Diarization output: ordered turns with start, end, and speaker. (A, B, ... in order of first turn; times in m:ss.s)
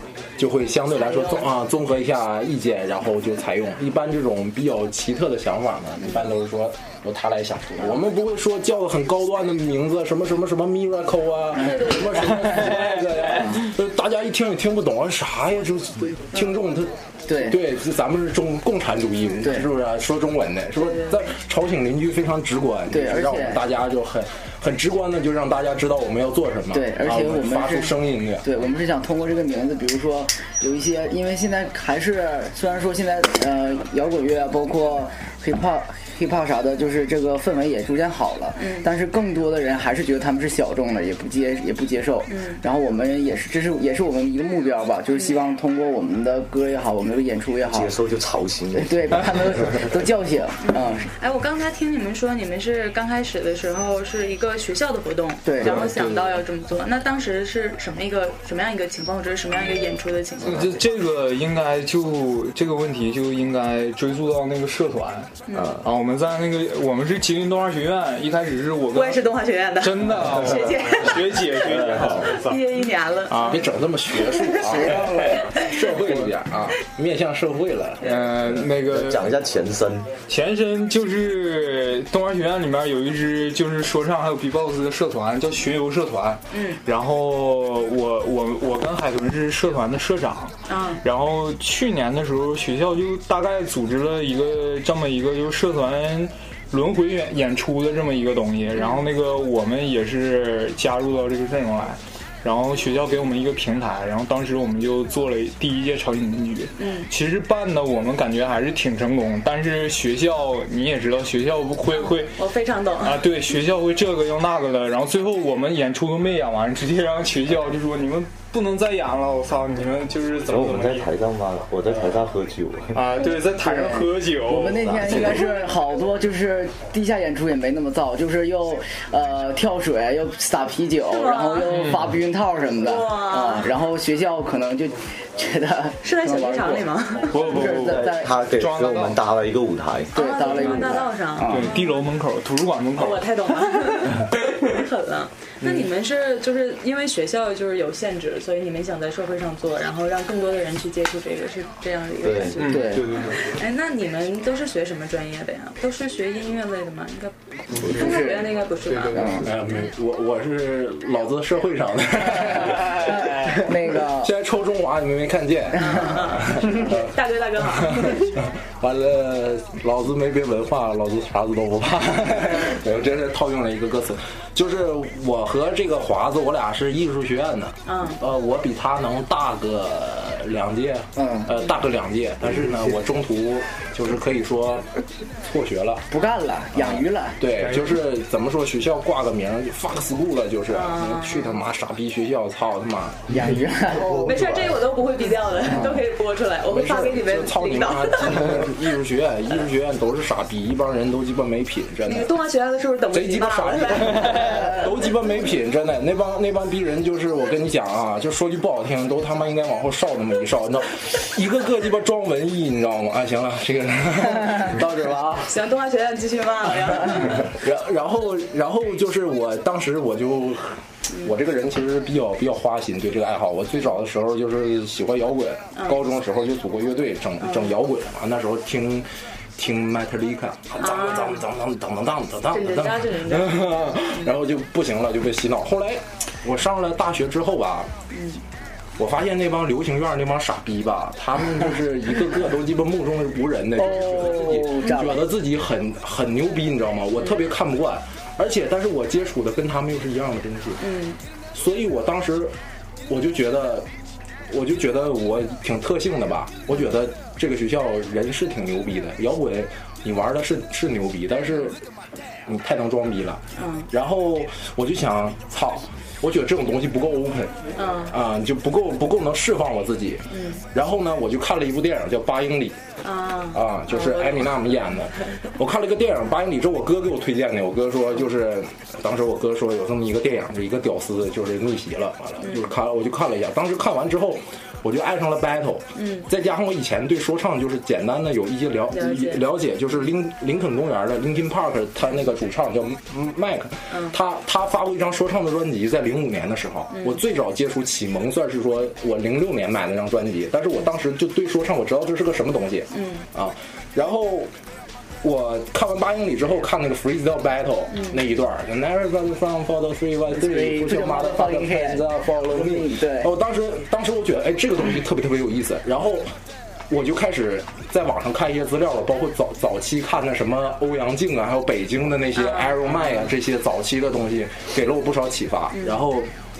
0:00.4-0:28.4 A
0:01.0-0:01.5 B
0:12.5-0:13.0 C
0:17.3-0:17.6 D
0:20.8-0:21.1 B
0:22.9-0:23.6 D
0:26.7-0:47.9 D
0:38.6-0:38.8 B
0:42.3-0:42.6 B
0:47.6-0:49.9 E
0:48.7-0:51.1 D
0:50.6-1:00.8 B
0:55.4-0:55.8 D
0:55.6-0:56.4 C
1:00.4-1:12.7 C
1:05.5-1:05.7 B
1:05.5-1:05.8 E
1:08.9-1:13.6 B
1:11.8-1:12.0 E
1:13.3-1:13.7 C
1:13.4-1:18.2 A
1:14.2-1:14.5 B
1:14.6-1:15.4 D
1:18.0-1:19.3 C
1:18.4-1:20.1 E
1:20.3-1:52.4 C
1:26.5-1:26.8 B
1:30.7-1:31.0 B
1:38.7-1:39.0 B
1:46.8-1:47.1 B
1:51.9-1:53.2 B
1:53.0-2:01.1 C
2:00.5-2:03.0 E
2:02.9-2:05.3 C
2:03.5-2:18.3 D
2:04.8-2:05.4 E
2:11.1-2:12.0 B
2:11.7-2:12.0 C
2:12.8-2:13.7 B
2:16.0-2:17.4 B
2:17.3-2:19.2 C
2:17.6-2:20.1 E
2:20.1-2:22.0 B
2:20.1-2:21.7 D
2:21.4-2:24.2 C
2:23.0-2:39.4 B
2:32.2-2:32.6 E
2:32.6-2:33.4 C
2:32.6-2:33.1 D
2:37.8-2:38.6 D
2:38.9-2:39.4 C
2:39.1-2:39.4 D
2:39.3-3:04.8 A
2:42.9-2:44.3 D
2:45.8-2:48.4 B
2:57.8-2:58.2 B
3:01.2-3:01.5 D
3:05.4-3:06.0 A
3:06.1-3:07.4 D
3:06.8-3:13.2 A
3:10.7-3:11.5 B
3:13.3-3:14.3 D
3:14.0-3:14.8 E
3:14.0-3:18.8 B
3:15.6-3:16.0 D
3:16.6-3:22.3 A
3:22.0-3:24.8 B
3:23.1-3:35.5 A
3:35.4-3:37.5 B
3:37.1-3:57.9 A
3:47.4-3:47.7 B
3:50.8-3:51.4 B
3:52.5-3:54.3 B
3:58.1-3:58.4 B
3:59.0-4:10.8 A
4:03.8-4:05.2 D
4:10.8-4:11.2 B
4:11.5-4:12.5 A
4:13.1-4:13.9 A
4:14.5-4:21.8 A
4:22.5-4:32.8 A
4:23.6-4:23.9 B
4:27.8-4:28.1 B
4:30.3-4:30.6 B
4:33.0-4:34.7 B
4:33.5-5:04.5 A
4:42.4-4:42.7 B
4:45.9-4:46.2 B
4:48.9-4:49.4 B
4:53.9-4:54.1 B
4:56.9-4:57.2 B
5:02.9-5:03.2 B
5:05.2-5:16.3 A
5:07.9-5:08.2 B
5:10.3-5:13.3 D
5:16.9-5:26.3 A
5:22.4-5:23.2 B
5:25.7-5:26.0 B